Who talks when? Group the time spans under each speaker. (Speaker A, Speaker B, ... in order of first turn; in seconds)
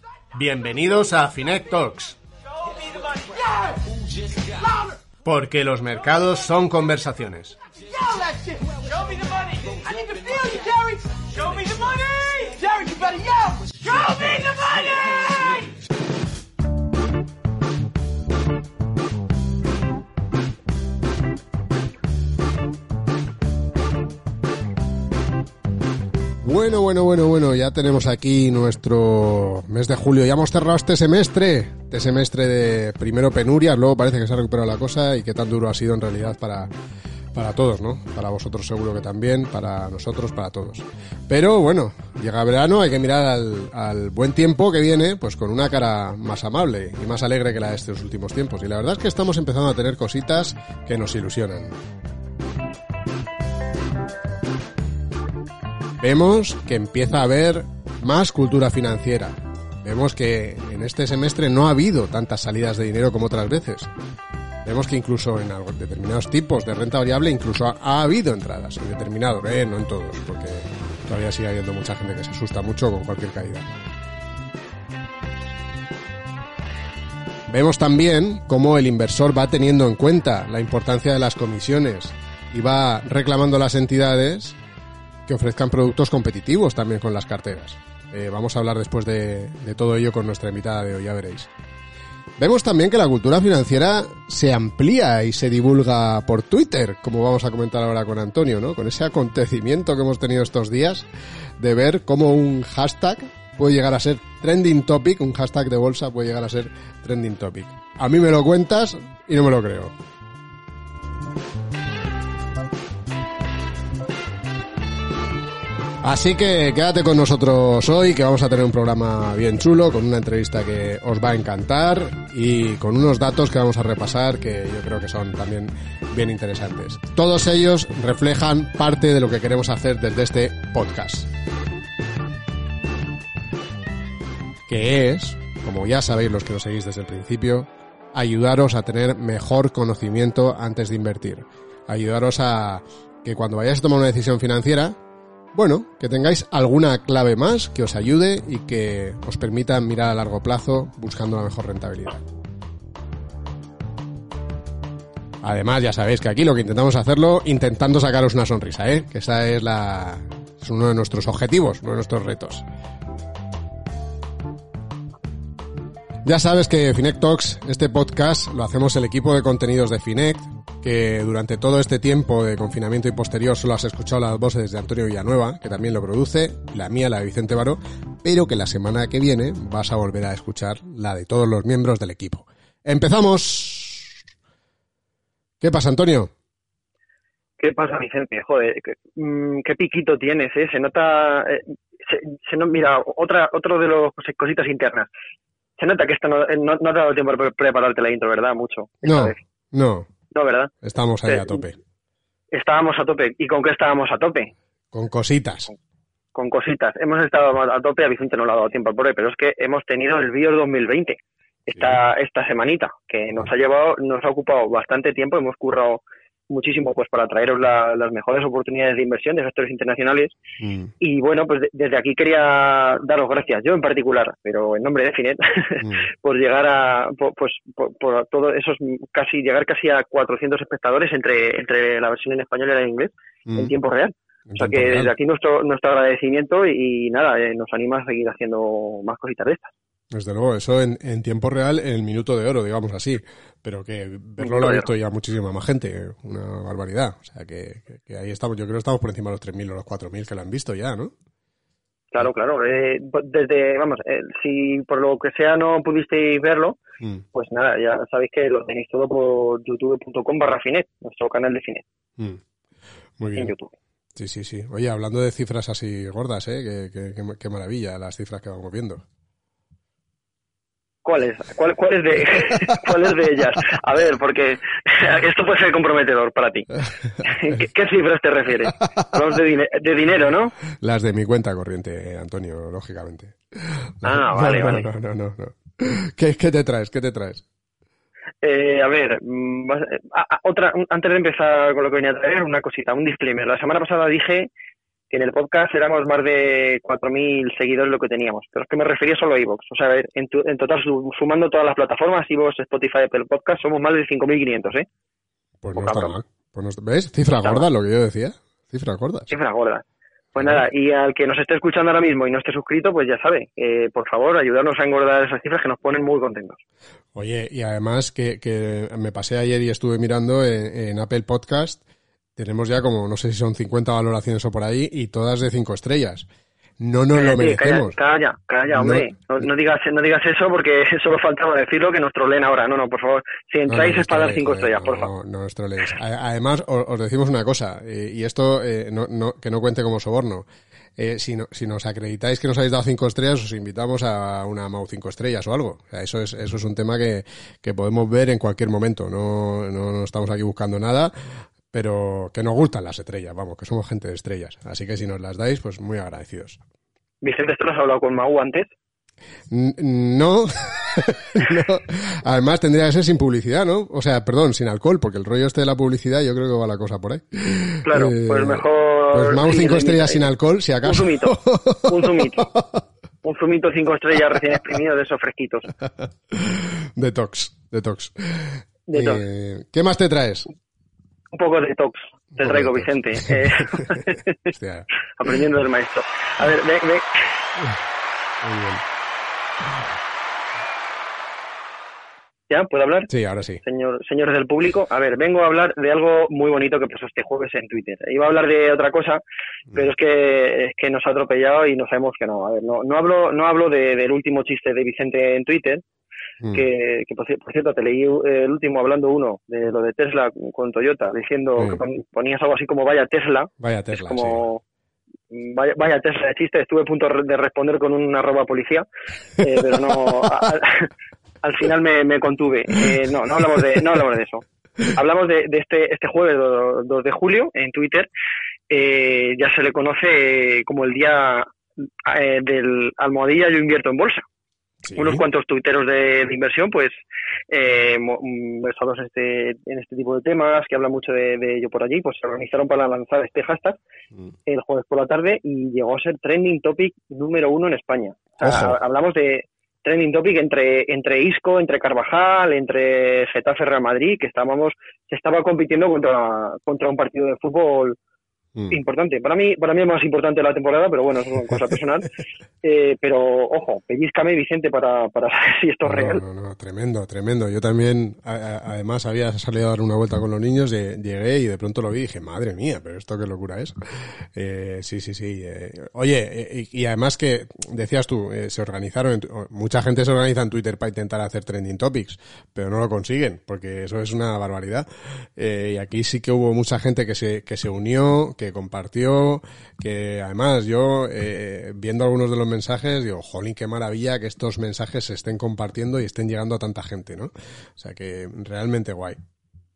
Speaker A: 0.3-2.2, 5.2-7.6, 26.4-36.7, 37.3-51.8, 56.0-63.9, 64.6-73.7, 77.5-84.6, 85.3-91.5, 92.4-101.1, 101.6-109.9, 116.0-131.3, 134.7-145.0, 145.5-152.2, 155.4-162.6, 166.2-184.2, 185.6-186.3, 199.0-200.1, 200.8-201.8, 204.9-205.7, 211.7-212.0, 220.6-220.9, 233.5-233.7, 234.5-235.1, 240.1-251.1, 263.2-263.5, 264.1-269.0, 280.7-287.4, 305.6-309.3, 310.4-310.6, 317.1-321.8, 322.4-326.3, 326.8-328.0, 328.7-329.1, 333.7-340.4, 341.0-351.1, 351.7-356.6, 359.5-372.8, 376.3-380.5, 382.4-384.9, 388.4-388.8, 393.1-393.6, 413.6-414.4, 434.9-435.2, 448.4-448.8, 465.9-499.2
Speaker B: 2.5-5.1, 7.8-15.8
Speaker C: 187.6-195.1, 195.8-199.4, 200.3-200.7, 201.3-201.6, 202.5-204.5, 206.3-220.4, 221.0-239.7, 244.4-244.9, 252.1-256.8, 257.3-261.8, 263.4-263.7, 271.0-280.6, 284.0-284.9, 288.4-294.5, 295.1-304.9, 305.8-306.2, 307.4-307.7, 309.3-309.8, 310.4-316.6, 327.1-335.1, 357.2-358.7, 367.8-370.3, 370.8-372.5, 373.2-375.7, 378.9-379.2, 381.3-384.5, 385.2-387.2, 392.5-393.1, 393.6-399.2, 399.7-405.8, 406.5-414.6, 415.3-418.9, 419.4-420.9, 421.4-428.1, 428.7-431.5, 432.0-434.2, 435.0-437.0, 437.5-443.8, 444.5-458.0, 458.7-466.2